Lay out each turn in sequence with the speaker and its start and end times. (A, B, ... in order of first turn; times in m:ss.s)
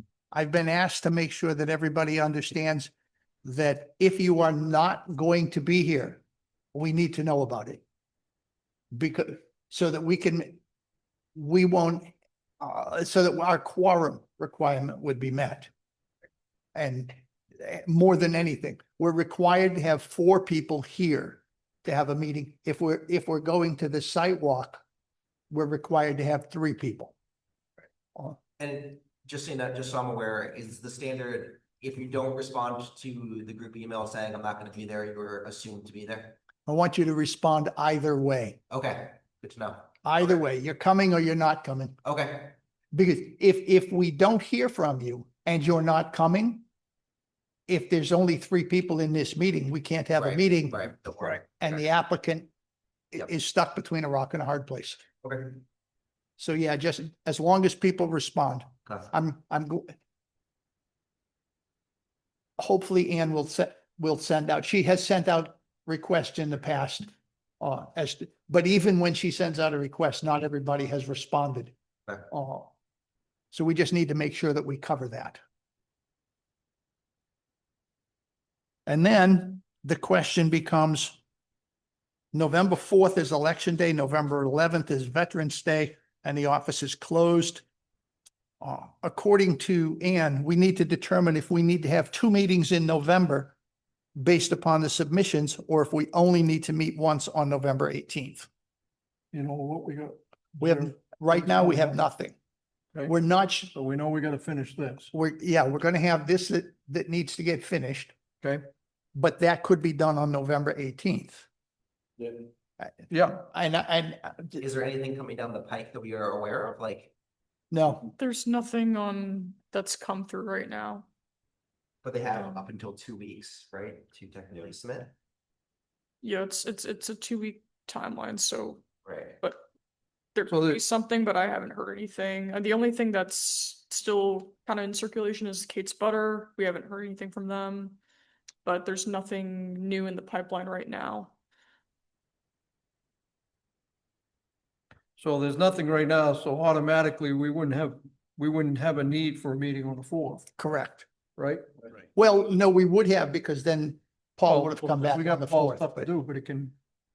0:00.3-0:02.9 A
0:03.4-0:06.2 A
0:06.7-0:07.8 A
0:08.9-0:10.6 A
0:11.4-0:15.7 A
0:16.8-0:24.8 A
0:25.5-0:27.1 A
0:28.6-0:36.4 B
0:36.7-0:38.6 A
0:38.7-0:40.4 B
0:40.0-0:42.0 A
0:42.0-0:42.6 B
0:42.9-0:46.6 A
0:47.7-0:50.8 A
0:50.2-0:51.8 B
0:51.6-0:52.5 A
0:53.1-0:55.0 A
0:55.2-0:55.6 B
0:56.4-1:00.0 A
1:02.6-1:07.1 A
1:07.6-1:11.7 A
1:12.3-1:12.7 A
1:13.5-1:15.4 A
1:18.9-1:21.2 A
1:22.3-1:27.6 A
1:28.6-1:33.6 A
1:34.2-1:38.5 A
1:39.3-1:42.0 C
1:40.6-1:42.4 A
1:43.1-1:43.7 A
1:43.7-1:45.1 C
1:45.1-1:48.1 A
1:49.2-1:51.5 A
1:52.8-1:54.7 A
1:53.1-1:53.4 C
1:54.6-1:57.1 B
1:57.7-1:58.1 A
1:58.2-2:01.1 D
2:02.0-2:05.1 B
2:02.4-2:02.6 D
2:06.2-2:08.8 D
2:09.0-2:09.4 B
2:10.4-2:18.0 D
2:10.5-2:10.8 C
2:18.6-2:21.3 D
2:25.2-2:30.5 C
2:30.6-2:31.1 A
2:31.4-2:31.6 C
2:32.2-2:36.1 A
2:34.4-2:36.8 C